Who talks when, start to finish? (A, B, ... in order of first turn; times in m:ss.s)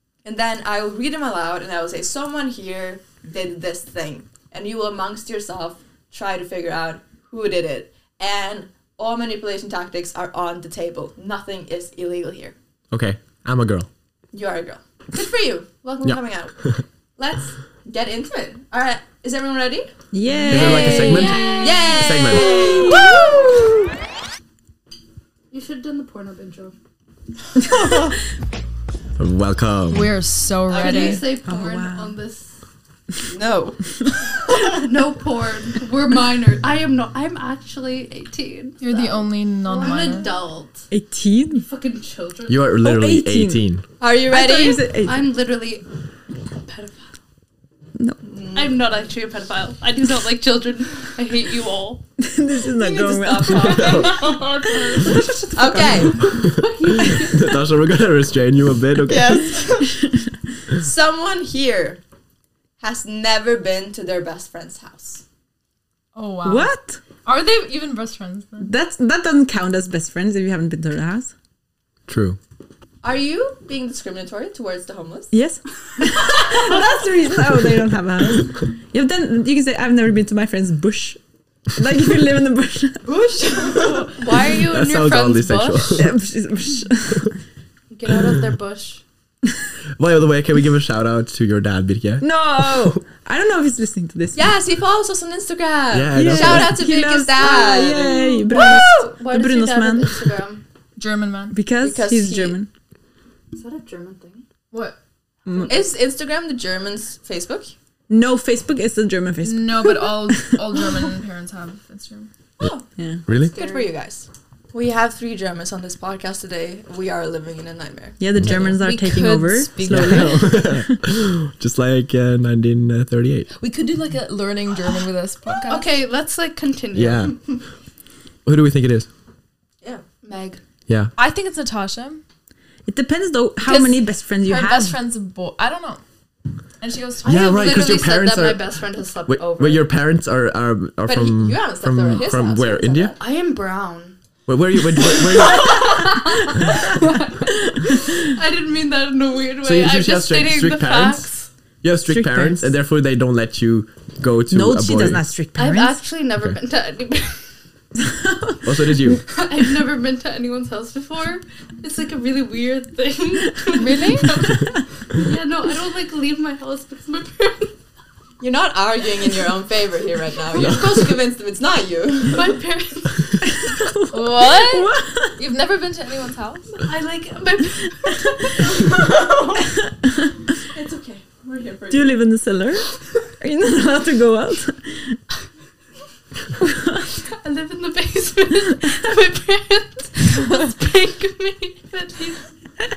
0:00.2-0:12.5 A
0:12.9-0:13.9 B
0:14.3-0:19.9 A
0:20.1-0:23.8 C
0:20.5-0:22.6 B
0:20.6-0:21.1 D
0:21.4-0:23.7 A
0:25.5-0:26.8 E
0:27.7-0:28.2 A
0:29.2-0:30.1 B
0:29.9-0:31.3 D
0:30.7-0:31.3 A
0:30.7-0:32.6 E
0:31.4-0:32.2 C
0:33.3-0:33.9 A
0:34.6-0:40.9 E
0:38.8-0:40.3 D
0:40.9-0:41.7 C
0:41.6-0:42.6 E
0:42.5-0:43.8 B
0:42.8-0:43.6 C
0:44.0-0:44.8 A
0:44.3-0:45.9 E
0:44.3-0:45.3 C
0:46.6-0:47.2 E
0:48.2-0:48.8 A
0:48.5-0:52.0 E
0:52.2-0:54.0 C
0:52.8-0:54.4 A
0:53.3-0:55.4 E
0:54.7-0:56.1 C
0:55.5-0:56.2 A
0:56.1-0:57.5 E
0:56.2-0:59.5 B
0:59.0-1:00.1 A
1:00.7-1:02.0 A
1:02.8-1:05.2 A
1:06.2-1:06.7 D
1:06.4-1:07.0 C
1:07.3-1:07.7 D
1:07.3-1:08.6 E
1:08.6-1:11.3 C
1:12.1-1:12.4 B
1:13.0-1:15.3 A
1:15.3-1:21.2 C
1:21.8-1:23.0 C
1:23.4-1:26.0 E
1:24.5-1:26.1 B
1:26.0-1:27.3 C
1:27.9-1:29.0 E
1:30.0-1:33.0 B
1:32.2-1:34.5 C
1:34.4-1:39.1 A
1:35.9-1:36.9 B
1:36.1-1:40.3 C
1:37.4-1:40.6 E
1:41.0-1:41.6 D
1:41.5-1:42.7 C
1:41.8-1:42.6 A
1:43.5-1:44.4 E
1:44.7-1:45.0 D
1:45.5-1:45.8 E
1:45.7-1:47.7 A
1:48.1-1:50.8 C
1:49.4-1:52.3 D
1:52.6-1:52.8 A
1:53.0-1:53.2 C
1:53.3-1:53.5 B
1:53.4-2:00.2 A
1:53.4-1:53.9 E
1:58.2-2:01.0 C
1:58.4-1:58.8 B
1:59.7-2:00.6 D
1:59.9-2:03.5 B
2:03.6-2:05.9 D
2:05.7-2:07.4 E
2:07.0-2:07.4 B
2:08.4-2:09.1 B
2:10.2-2:10.6 E
2:10.9-2:11.1 B
2:11.2-2:12.2 D
2:12.9-2:15.0 C
2:13.6-2:16.0 D
2:16.8-2:18.0 D
2:17.2-2:19.9 E
2:17.2-2:18.6 B
2:19.3-2:23.1 B
2:21.1-2:23.2 A
2:23.2-2:24.2 E
2:24.5-2:26.2 B
2:25.0-2:31.5 E
2:29.6-2:31.3 B
2:31.8-2:35.3 B
2:32.1-2:32.7 C
2:34.5-2:36.0 C
2:35.6-2:37.4 E
2:38.6-2:39.2 B
2:39.2-2:47.8 E
2:43.7-2:44.6 D
2:48.4-2:52.5 A
2:50.6-2:50.9 B
2:52.3-2:53.4 E
2:53.5-2:55.4 C
2:54.1-2:56.8 D
2:56.8-2:59.0 E
2:58.6-2:59.6 A
2:59.9-3:00.4 C
3:00.7-3:02.2 A
3:01.9-3:02.9 C
3:03.4-3:05.2 C
3:06.7-3:07.0 C
3:07.2-3:12.4 E